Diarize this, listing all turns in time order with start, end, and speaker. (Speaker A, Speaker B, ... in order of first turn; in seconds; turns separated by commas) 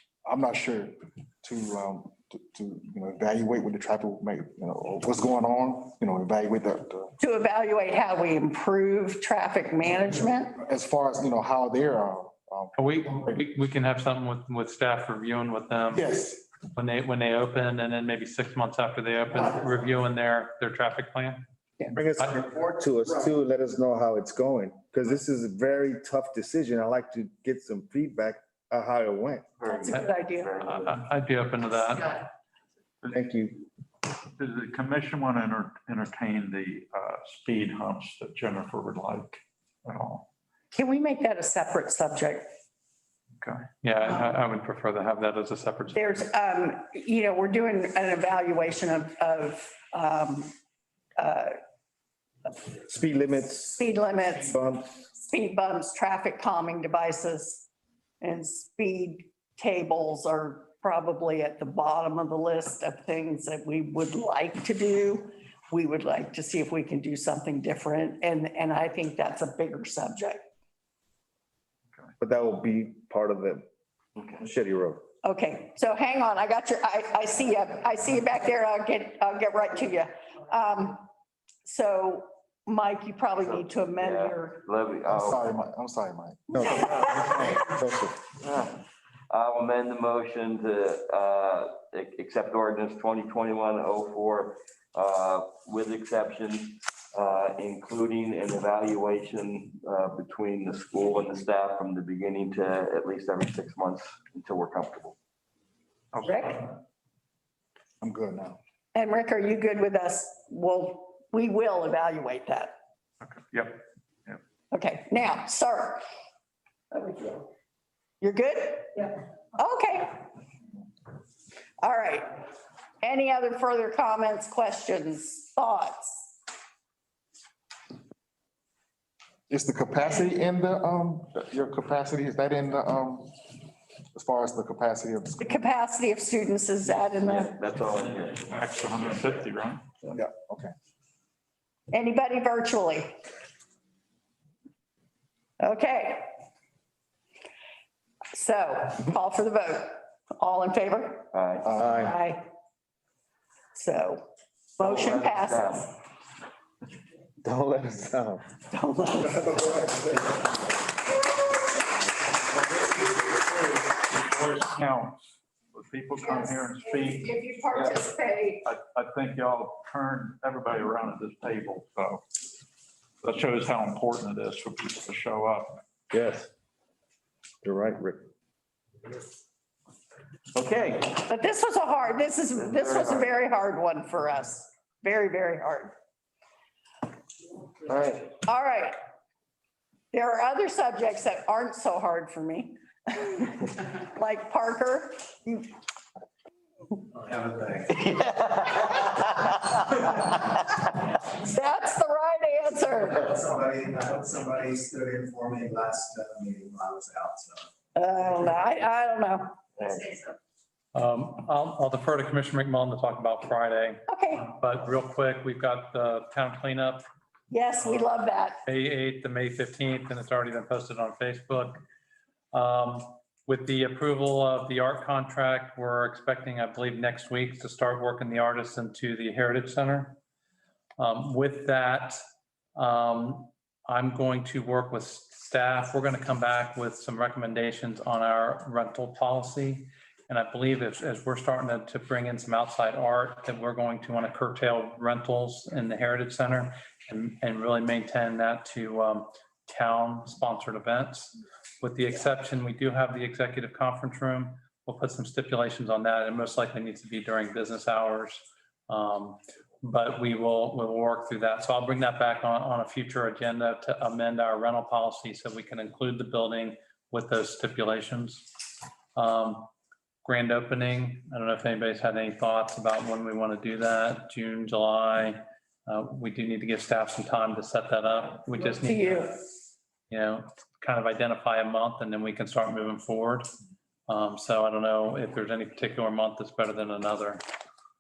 Speaker A: 0.2-7.1, Speaker B: 7.2-10.6, Speaker A: 10.6-12.9, Speaker C: 12.7-16.1, Speaker A: 15.9-16.4, Speaker C: 16.7-21.4, Speaker D: 21.9-29.5, Speaker E: 29.6-31.0, Speaker B: 29.7-30.5, Speaker C: 30.6-32.2, Speaker D: 33.1-33.6, Speaker F: 34.4-40.3, Speaker B: 40.7-42.5, Speaker F: 43.4-43.7, Speaker C: 43.8-46.1, Speaker B: 45.9-50.5, Speaker B: 51.2-51.5, Speaker D: 52.9-53.8, Speaker B: 53.8-54.5, Speaker D: 54.4-54.9, Speaker B: 55.2-57.7, Speaker B: 58.2-70.5, Speaker D: 72.2-73.6, Speaker E: 74.2-74.4, Speaker D: 74.4-75.0, Speaker B: 75.2-81.0, Speaker B: 81.6-84.6, Speaker E: 83.4-85.5, Speaker A: 85.0-87.7, Speaker D: 86.5-88.2, Speaker B: 86.6-87.3, Speaker E: 88.4-105.2, Speaker F: 106.1-106.6, Speaker B: 106.2-106.6, Speaker A: 108.0-108.6, Speaker B: 108.9-112.7, Speaker F: 113.2-114.4, Speaker B: 114.7-116.0, Speaker B: 116.9-117.5, Speaker B: 118.2-120.3, Speaker B: 121.8-122.4, Speaker B: 123.0-126.3, Speaker A: 129.5-133.4, Speaker A: 134.1-135.6, Speaker B: 135.4-137.6, Speaker E: 136.8-139.4, Speaker F: 137.9-139.9, Speaker A: 140.2-140.7, Speaker B: 141.9-143.2, Speaker B: 145.6-146.3, Speaker B: 148.3-151.3, Speaker E: 151.3-151.8, Speaker B: 151.8-152.5, Speaker B: 153.7-154.2, Speaker B: 154.8-155.9, Speaker E: 154.8-155.9, Speaker D: 157.4-158.4, Speaker B: 158.7-159.9, Speaker F: 164.1-168.0, Speaker B: 167.1-168.6, Speaker F: 168.6-172.2, Speaker F: 173.2-175.8, Speaker D: 176.1-176.5, Speaker D: 177.6-178.2, Speaker E: 180.5-181.2, Speaker B: 181.2-185.9, Speaker E: 182.6-183.3, Speaker D: 187.9-188.3, Speaker B: 188.4-188.9, Speaker B: 190.1-195.7, Speaker G: 197.2-197.9, Speaker B: 198.5-203.4, Speaker G: 203.3-207.6, Speaker B: 207.9-209.6, Speaker E: 209.8-210.2, Speaker C: 210.9-217.0, Speaker B: 214.1-214.5, Speaker B: 217.5-218.6, Speaker C: 218.7-221.8, Speaker C: 222.5-230.2, Speaker C: 231.0-232.2, Speaker C: 232.8-268.5, Speaker C: 269.1-269.7, Speaker C: 270.2-279.4, Speaker B: 278.8-279.3, Speaker C: 280.1-283.5, Speaker C: 284.1-287.4